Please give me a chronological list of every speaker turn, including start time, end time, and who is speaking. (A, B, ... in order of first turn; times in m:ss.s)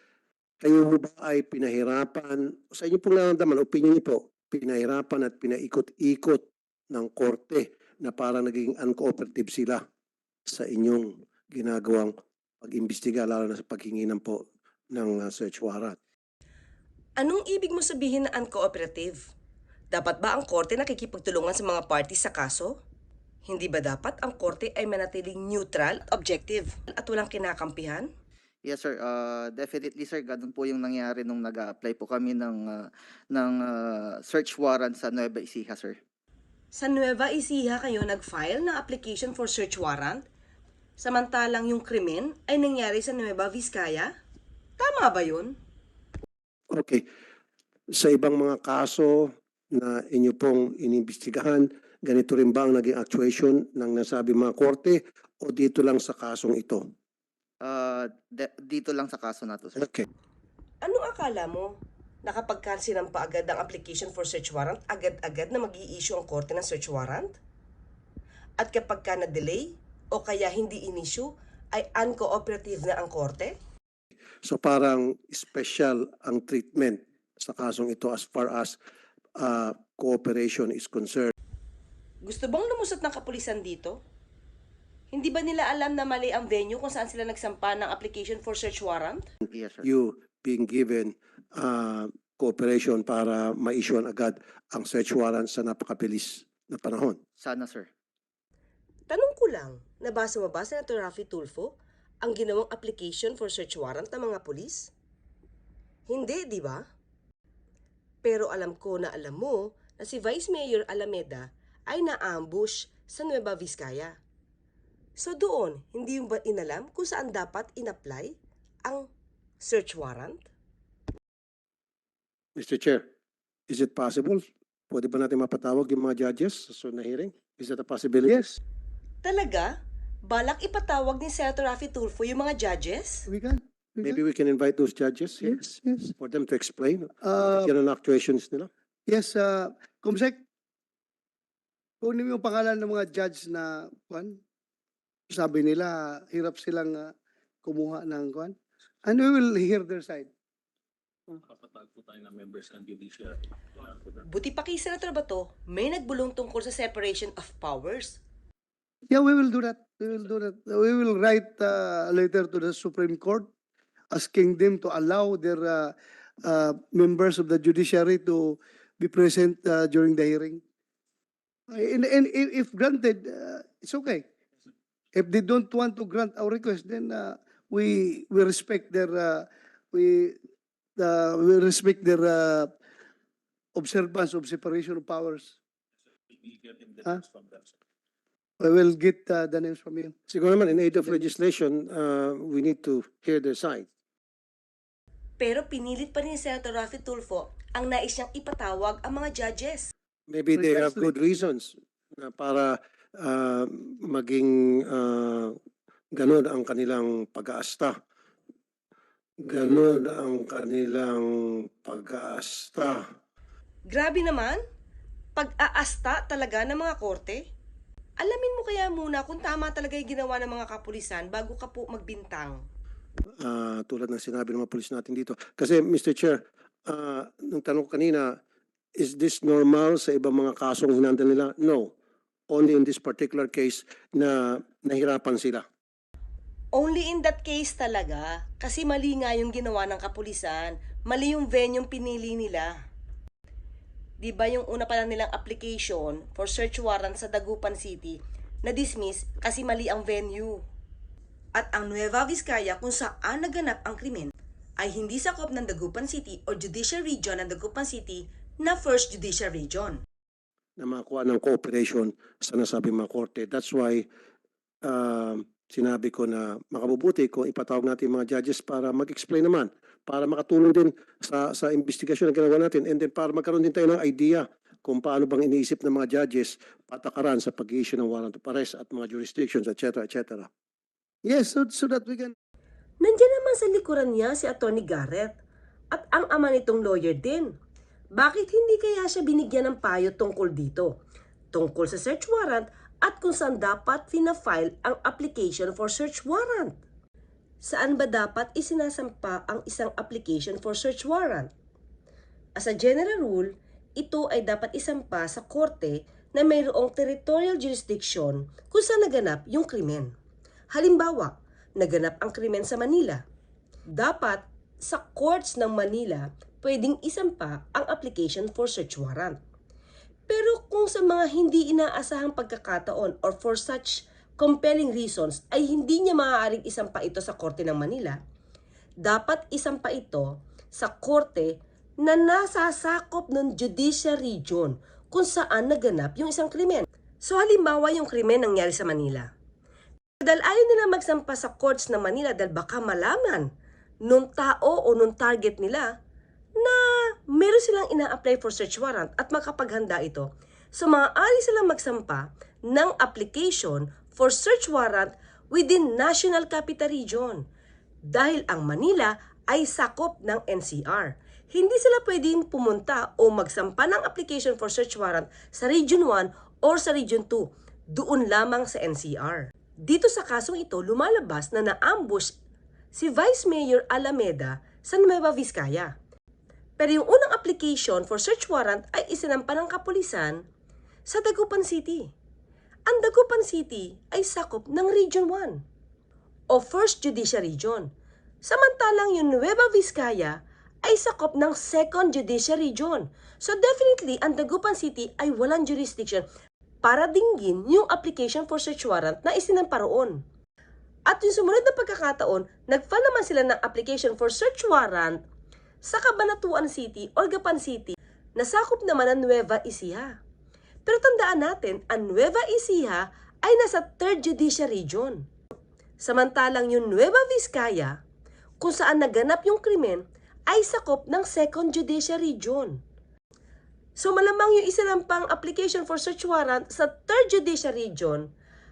0:00.6-0:09.8 A
0:10.5-0:16.0 A
0:17.2-0:19.2 B
0:19.9-0:22.8 B
0:23.5-0:28.1 B
0:28.6-0:36.0 C
0:36.7-0:40.2 B
0:41.0-0:44.1 B
0:44.8-0:45.6 B
0:46.7-0:47.0 A
0:47.9-0:56.9 A
0:57.6-0:59.9 C
0:59.8-1:00.0 A
1:00.8-1:01.7 B
1:02.2-1:07.4 B
1:08.6-1:13.6 B
1:14.4-1:18.8 A
1:19.4-1:21.3 A
1:22.2-1:24.0 B
1:25.1-1:29.2 B
1:29.5-1:29.9 C
1:29.8-1:37.2 A
1:37.4-1:37.9 C
1:39.1-1:44.9 B
1:46.1-1:46.9 B
1:48.2-1:54.2 B
1:55.2-1:58.4 B
1:59.6-2:00.5 B
2:02.6-2:03.0 A
2:03.7-2:08.4 A
2:08.3-2:08.6 D
2:09.2-2:09.7 B
2:10.3-2:13.3 B
2:13.3-2:14.2 D
2:14.0-2:15.6 A
2:15.4-2:16.1 D
2:16.2-2:18.7 A
2:17.2-2:17.7 D
2:19.1-2:20.4 D
2:22.0-2:24.4 D
2:25.3-2:27.1 D
2:27.6-2:30.3 D
2:32.4-2:33.1 D
2:34.2-2:38.2 B
2:39.1-2:43.5 D
2:44.1-2:50.6 D
2:51.7-2:54.3 D
2:55.2-3:00.4 D
3:01.0-3:02.7 D
3:03.8-3:05.6 D
3:06.9-3:07.4 D
3:08.6-3:10.1 D
3:10.3-3:13.9 A
3:15.4-3:19.9 B
3:20.3-3:25.6 A
3:20.6-3:21.1 D
3:26.2-3:28.0 A
3:29.4-3:33.0 A
3:33.9-3:34.6 B
3:35.4-3:37.4 B
3:38.2-3:42.6 B
3:43.4-3:48.4 A
3:49.0-3:51.9 A
3:52.5-3:55.6 A
3:56.7-4:02.7 B
4:04.2-4:10.6 B
4:11.6-4:20.0 B
4:20.8-4:24.1 A
4:24.8-4:40.5 A
4:41.2-4:42.3 D
4:43.0-4:45.4 B
4:45.9-4:47.5 B
4:48.2-4:51.0 B
4:51.5-4:56.8 B
4:57.6-5:01.5 B
5:02.6-5:10.1 B
5:10.7-5:13.2 B
5:13.9-5:19.4 B
5:20.3-5:28.2 B
5:29.0-5:39.3 B
5:40.2-5:43.5 B
5:44.0-5:45.9 B
5:46.6-5:57.4 B
5:58.0-6:12.4 B
6:12.9-6:15.9 B
6:16.8-6:20.4 B
6:21.1-6:22.1 B
6:22.9-6:25.6 B
6:26.5-6:27.9 B
6:28.4-6:36.3 B
6:36.8-6:40.2 B
6:41.1-6:45.2 B
6:45.8-6:50.2 B
6:50.9-6:55.2 B
6:56.0-6:58.0 B
6:58.6-7:02.8 B
7:04.0-7:08.3 B